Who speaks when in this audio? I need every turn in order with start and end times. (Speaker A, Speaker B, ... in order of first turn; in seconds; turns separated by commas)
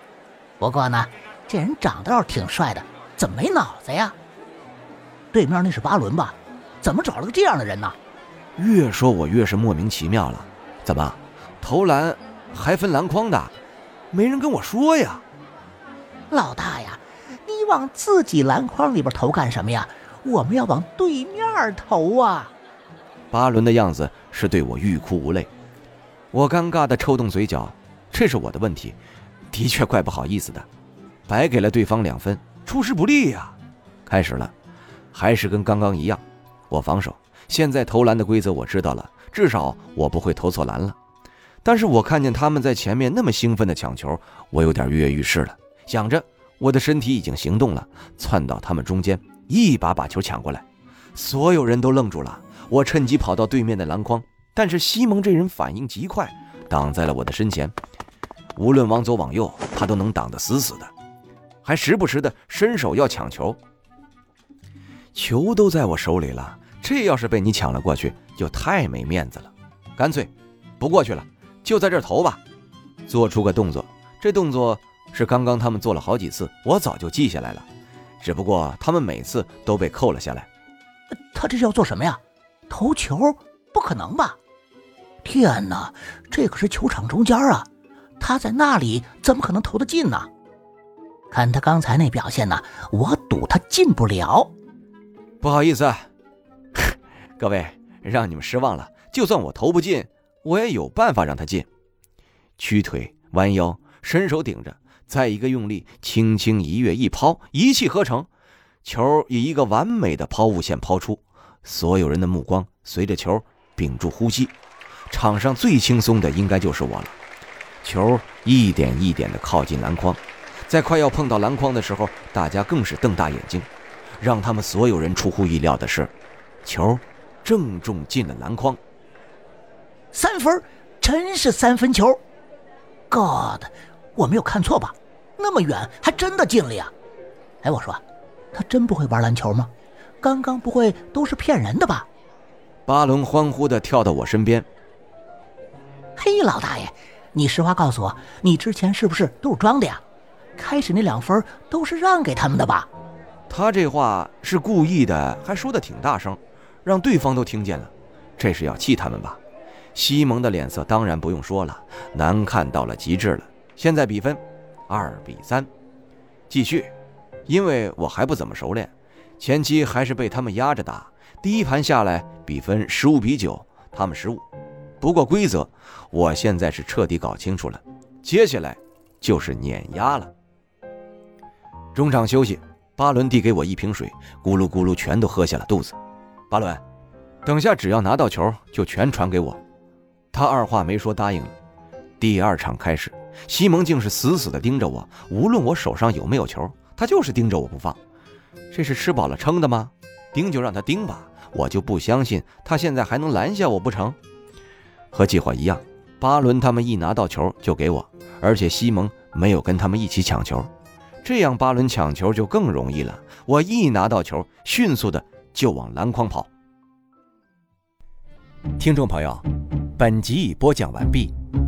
Speaker A: 0.6-4.2, Speaker A: 5.3-8.0, Speaker B: 8.6-13.5, Speaker B: 14.1-15.2, Speaker A: 16.3-22.5, Speaker B: 23.3-25.5, Speaker B: 26.3-29.0, Speaker B: 29.5-30.7, Speaker B: 31.3-34.5, Speaker B: 35.1-41.0, Speaker B: 41.6-57.7, Speaker B: 58.6-60.9, Speaker B: 61.6-63.6, Speaker B: 65.1-72.4, Speaker B: 73.1-77.7, Speaker B: 78.2-80.5, Speaker A: 81.3-84.4, Speaker A: 85.2-87.7, Speaker A: 88.2-90.3, Speaker A: 91.3-94.5, Speaker B: 95.4-96.1, Speaker B: 96.8-101.7, Speaker B: 102.6-108.3, Speaker B: 108.8-114.5, Speaker B: 115.1-117.2, Speaker B: 117.8-126.1, Speaker B: 126.6-128.8, Speaker A: 130.1-132.2, Speaker A: 133.1-136.9, Speaker A: 137.6-138.0, Speaker A: 138.5-142.1, Speaker B: 142.9-144.7, Speaker A: 146.2-150.0, Speaker A: 150.6-152.9, Speaker B: 153.5-159.4, Speaker B: 159.9-165.7, Speaker B: 166.5-166.9, Speaker B: 167.5-174.4, Speaker B: 175.0-180.3, Speaker B: 181.9-186.0, Speaker B: 186.5-186.8, Speaker B: 187.4-189.6, Speaker B: 190.3-191.6, Speaker B: 192.2-198.0, Speaker B: 198.7-204.2, Speaker B: 205.1-210.7, Speaker B: 211.2-216.5, Speaker B: 218.8-221.3